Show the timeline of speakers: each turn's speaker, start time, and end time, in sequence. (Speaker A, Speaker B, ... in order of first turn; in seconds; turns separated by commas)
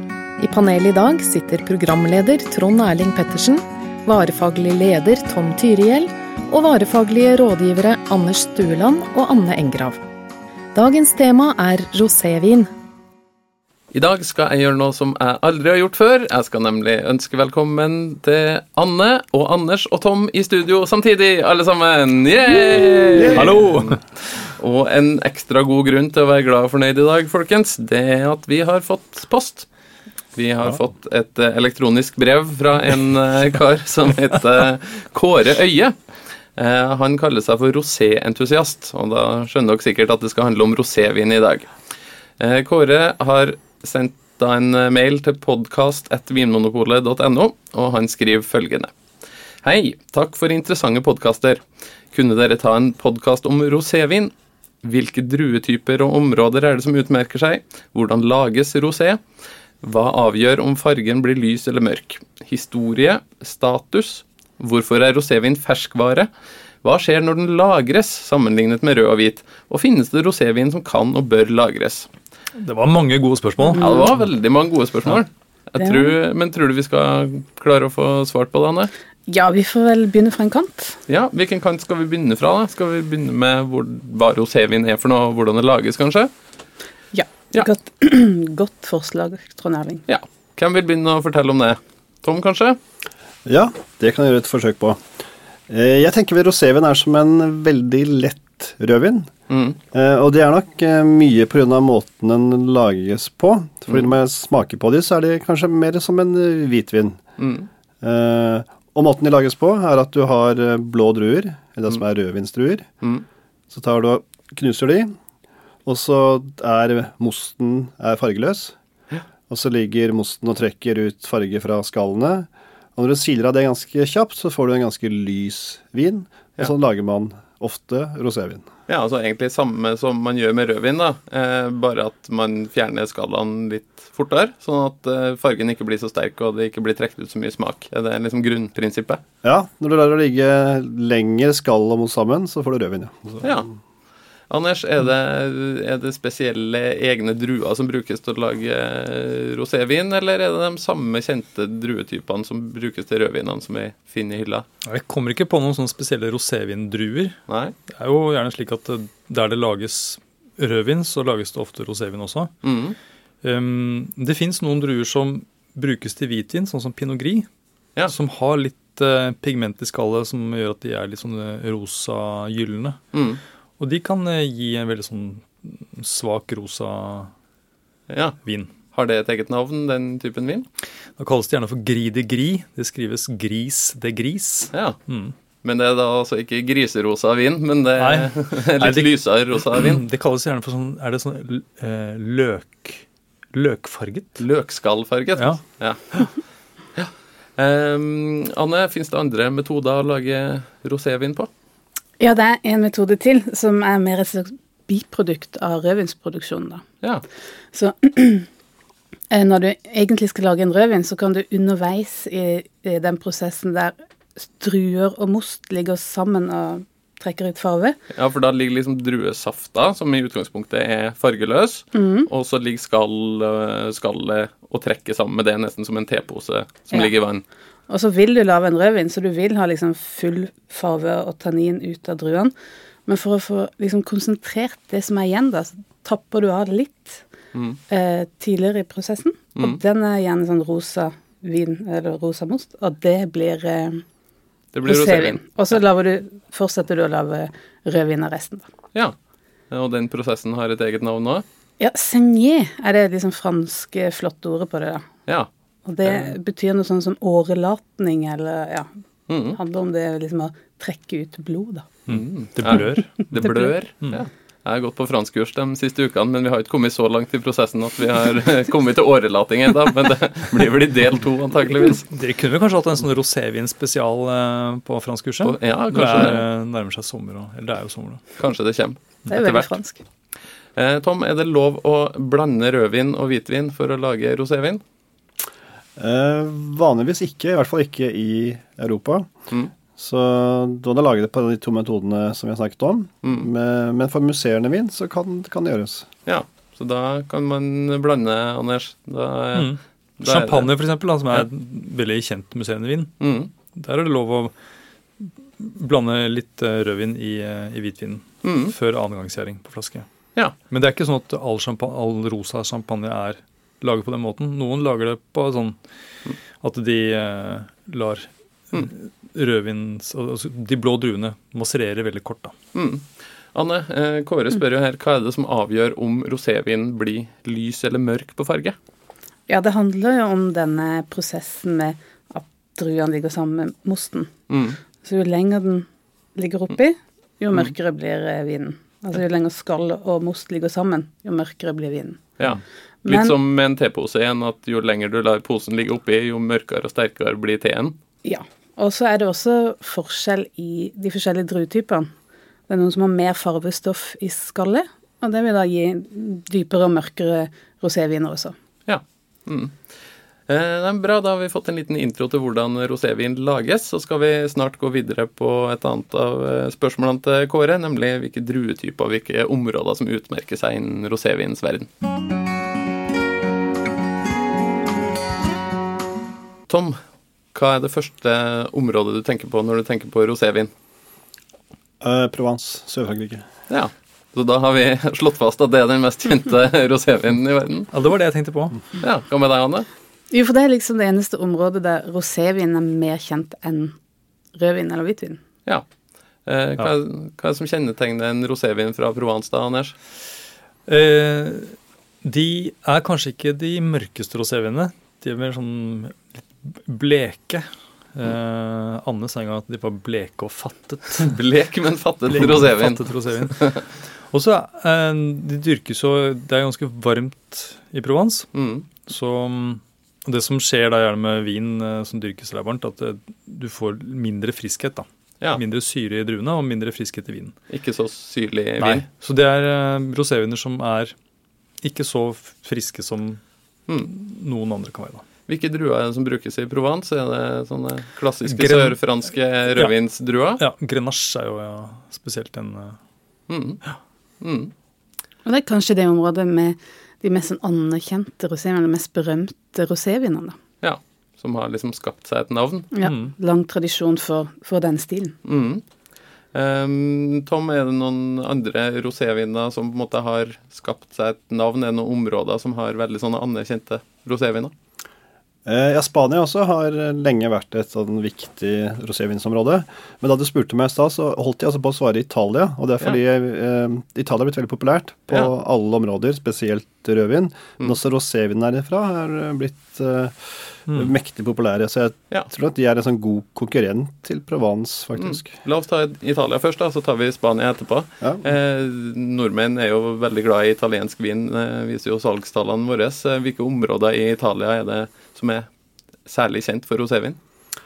Speaker A: 0.4-10.0, Speaker A: 10.7-12.7, Speaker B: 13.9-29.7, Speaker C: 23.3-24.0, Speaker B: 30.3-36.0, Speaker B: 36.5-41.7, Speaker B: 42.4-48.9, Speaker B: 49.6-59.2, Speaker B: 59.8-66.3, Speaker B: 66.8-72.1, Speaker C: 72.6-74.2, Speaker D: 73.7-74.0, Speaker B: 73.8-78.9, Speaker D: 75.8-76.1, Speaker D: 79.3-81.0, Speaker B: 81.1-86.3, Speaker D: 87.1-90.0, Speaker B: 90.1-92.8, Speaker E: 93.5-95.0, Speaker E: 95.7-99.3, Speaker B: 99.5-99.8, Speaker E: 99.9-107.2, Speaker B: 107.4-107.7, Speaker E: 108.0-112.9, Speaker E: 113.7-115.1, Speaker E: 115.8-118.8, Speaker E: 119.5-128.7, Speaker B: 128.9-139.2, Speaker E: 139.4-143.7, Speaker B: 144.5-154.7, Speaker C: 154.8-157.4, Speaker B: 157.5-157.8, Speaker C: 157.9-162.5, Speaker B: 162.6-163.0, Speaker C: 163.4-167.5, Speaker C: 168.1-173.0, Speaker B: 173.1-173.4, Speaker C: 173.8-177.3, Speaker B: 178.1-178.4, Speaker C: 178.4-178.7, Speaker B: 178.9-180.7, Speaker C: 181.2-185.3, Speaker B: 184.7-185.0, Speaker B: 185.6-190.0, Speaker C: 188.0-189.1, Speaker C: 189.7-194.4, Speaker B: 194.4-196.3, Speaker B: 196.9-201.5, Speaker D: 202.2-206.8, Speaker D: 207.7-208.5, Speaker D: 209.3-218.0, Speaker B: 218.1-227.4, Speaker D: 221.9-222.3, Speaker D: 227.9-232.5, Speaker D: 233.1-237.2, Speaker B: 237.5-237.8, Speaker D: 237.9-244.0, Speaker B: 244.7-245.4, Speaker D: 244.8-248.7, Speaker B: 249.7-251.4, Speaker D: 251.8-255.1, Speaker D: 255.8-258.9, Speaker B: 259.3-259.6, Speaker D: 259.5-261.9, Speaker C: 262.1-264.2, Speaker B: 262.1-272.1, Speaker C: 272.1-278.2, Speaker B: 275.4-276.4, Speaker B: 278.4-279.7, Speaker D: 279.3-280.0, Speaker B: 280.8-284.8, Speaker E: 286.0-289.3, Speaker E: 290.0-296.1, Speaker B: 293.2-293.5, Speaker B: 296.3-300.7, Speaker C: 299.5-303.1, Speaker B: 303.2-303.5, Speaker C: 303.7-304.5, Speaker C: 305.2-310.1, Speaker B: 308.4-308.7, Speaker C: 310.7-315.8, Speaker C: 316.6-322.5, Speaker B: 322.7-328.8, Speaker D: 329.5-334.3, Speaker B: 334.5-334.8, Speaker D: 335.0-342.2, Speaker B: 342.4-348.0, Speaker D: 343.1-343.4, Speaker D: 348.2-352.1, Speaker D: 352.7-358.6, Speaker B: 358.9-359.8, Speaker B: 360.5-371.9, Speaker B: 376.7-377.0, Speaker B: 377.5-380.7, Speaker E: 382.0-383.5, Speaker B: 383.7-387.9, Speaker C: 387.9-388.8, Speaker B: 389.0-389.9, Speaker D: 390.3-394.0, Speaker D: 394.6-395.4, Speaker B: 396.5-400.0, Speaker C: 400.9-411.3, Speaker B: 411.2-413.8, Speaker C: 412.3-427.6, Speaker B: 418.5-418.9, Speaker B: 427.7-429.1, Speaker C: 428.8-431.1, Speaker C: 431.8-433.4, Speaker C: 434.0-435.2, Speaker B: 435.5-440.6, Speaker C: 438.5-439.0, Speaker C: 440.6-443.0, Speaker B: 443.5-443.8, Speaker B: 444.4-444.7, Speaker D: 445.4-450.6, Speaker B: 450.8-452.9, Speaker D: 452.9-455.4, Speaker C: 453.0-453.3, Speaker B: 455.4-455.8, Speaker B: 456.5-464.7, Speaker E: 465.7-485.5, Speaker B: 485.2-495.7, Speaker B: 496.3-497.4